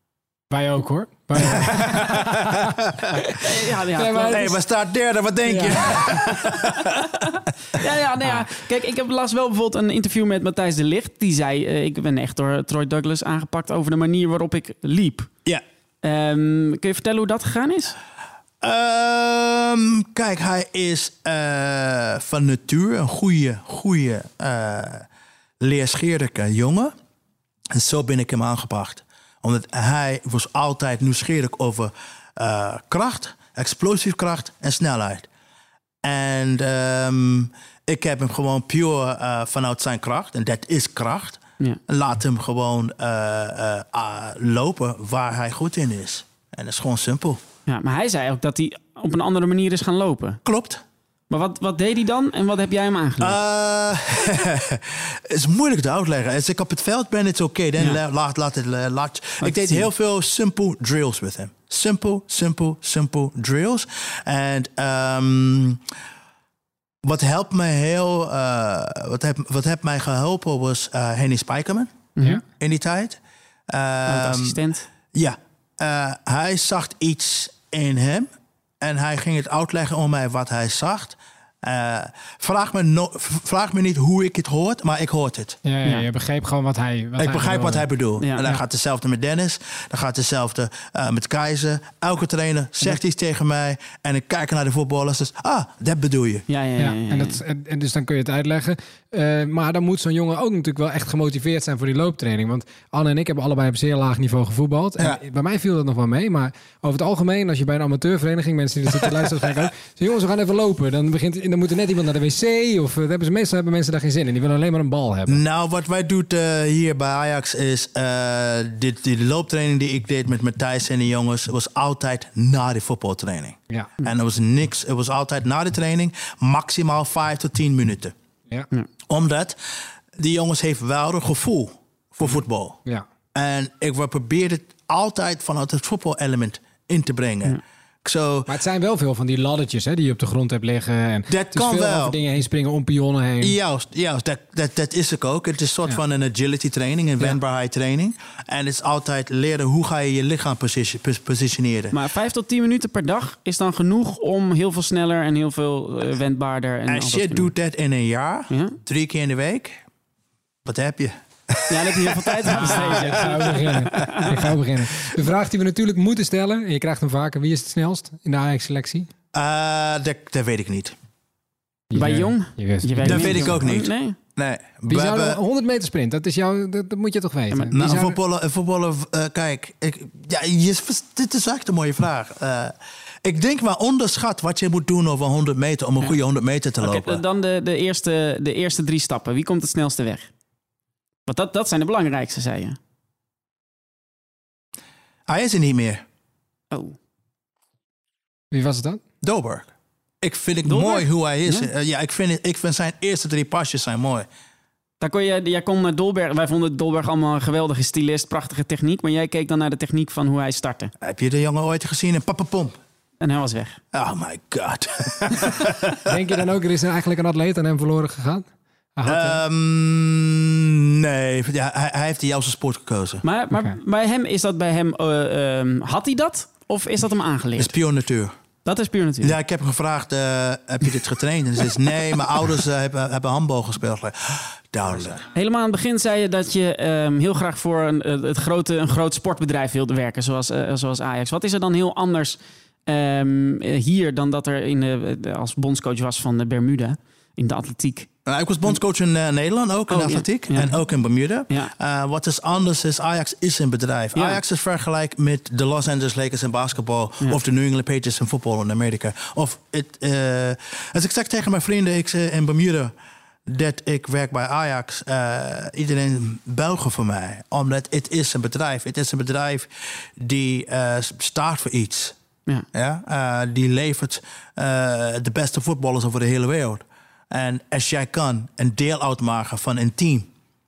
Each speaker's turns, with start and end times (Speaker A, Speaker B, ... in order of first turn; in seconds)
Speaker A: 0.5-2.5, 4.0-4.5, 5.5-6.0, 85.6-87.8, 96.8-115.4, 138.5-143.6, 162.5-169.1, 171.9-173.6, 174.9-178.2, 198.5-199.0, 216.0-219.4
Speaker B: 1.4-3.2, 4.2-7.1, 18.6-25.1, 25.6-26.9, 27.7-35.3, 36.0-47.4, 50.4-50.8, 53.2-65.8, 67.0-72.0, 72.6-73.2, 73.7-74.6, 75.1-78.3, 78.8-85.6, 87.2-96.4, 115.3-128.1, 129.1-132.8, 133.3-138.5, 141.3-142.2, 143.4-151.9, 156.9-159.8, 160.6-164.4, 169.3-170.9, 173.0-175.4, 177.7-187.2, 195.3-196.0, 199.2-204.3, 211.0-212.8, 213.9-216.1, 219.0-223.2, 227.6-228.3, 229.2-235.2, 248.2-262.9, 263.4-272.1, 272.7-280.3
Speaker C: 3.4-4.5, 7.7-15.3, 16.0-17.9, 47.7-50.4, 51.3-53.4, 59.4-59.9, 72.2-72.4, 74.1-74.8, 96.5-97.4, 151.9-157.5, 158.5-158.8, 161.7-164.3, 171.9-174.2, 177.5-177.8, 186.8-190.3, 191.2-192.8, 196.7-197.0, 200.7-201.7, 205.0-210.9, 213.2-213.8, 223.2-227.7, 228.6-229.3, 235.3-248.1, 249.9-250.8, 254.2-254.4